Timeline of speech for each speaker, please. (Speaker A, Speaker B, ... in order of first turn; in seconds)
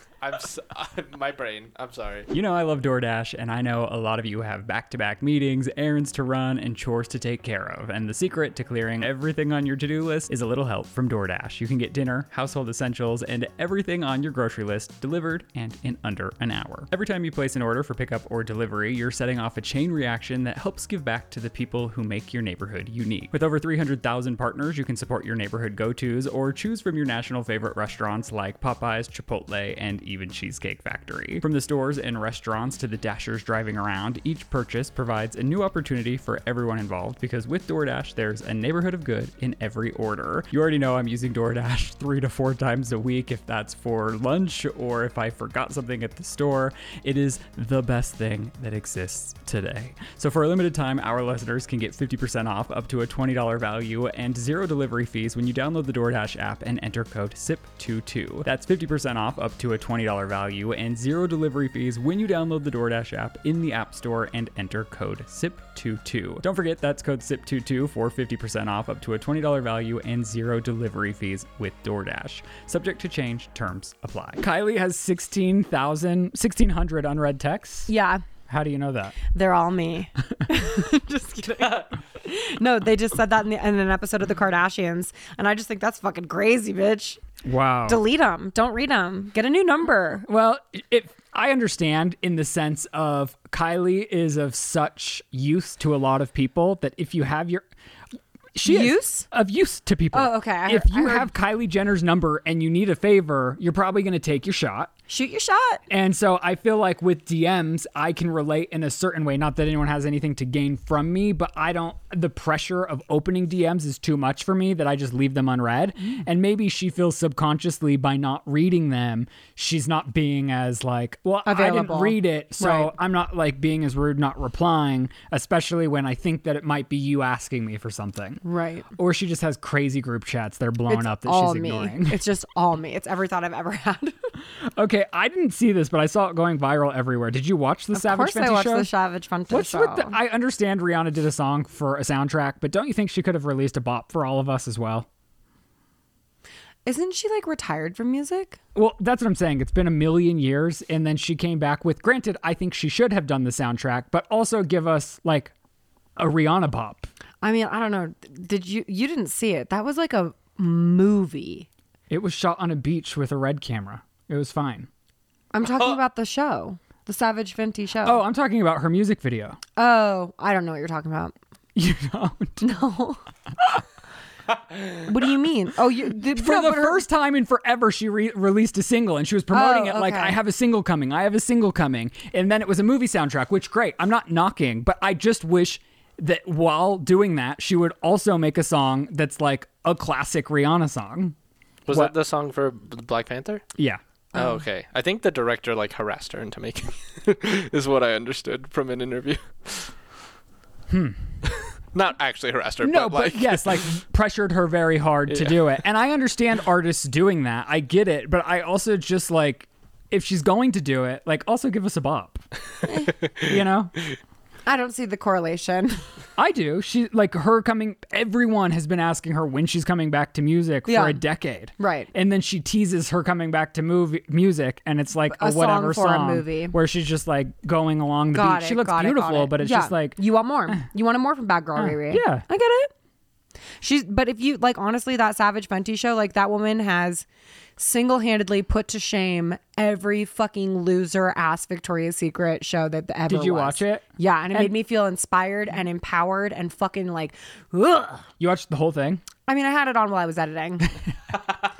Speaker A: 0.2-2.3, 191.8-193.6, 194.3-199.9, 201.4-203.8, 205.3-205.6
Speaker B: 2.3-77.9, 78.5-79.2, 87.4-88.0, 90.3-97.6, 98.5-104.9, 105.9-128.4, 128.9-132.2, 134.6-138.9, 139.5-145.1, 148.7-155.5, 156.2-157.1, 162.1-164.9, 168.0-169.6, 171.8-172.6, 176.3-191.3, 200.9-201.2, 202.8-212.4, 213.4-213.9, 216.4-230.2, 231.8-232.4, 243.3-244.7, 248.4-249.2
Speaker C: 77.9-78.2, 79.3-87.2, 87.9-90.3, 98.6-99.3, 100.1-101.3, 105.1-105.8, 121.5-122.9, 128.4-128.9, 130.9-134.3, 137.9-140.2, 146.8-148.6, 157.4-161.7, 165.5-168.2, 169.8-171.3, 172.6-173.2, 174.9-177.0, 179.5-180.4, 214.7-216.0, 220.8-221.2, 221.8-222.1, 225.3-226.7, 228.3-232.9, 233.8-237.2, 237.8-248.3, 249.4-250.9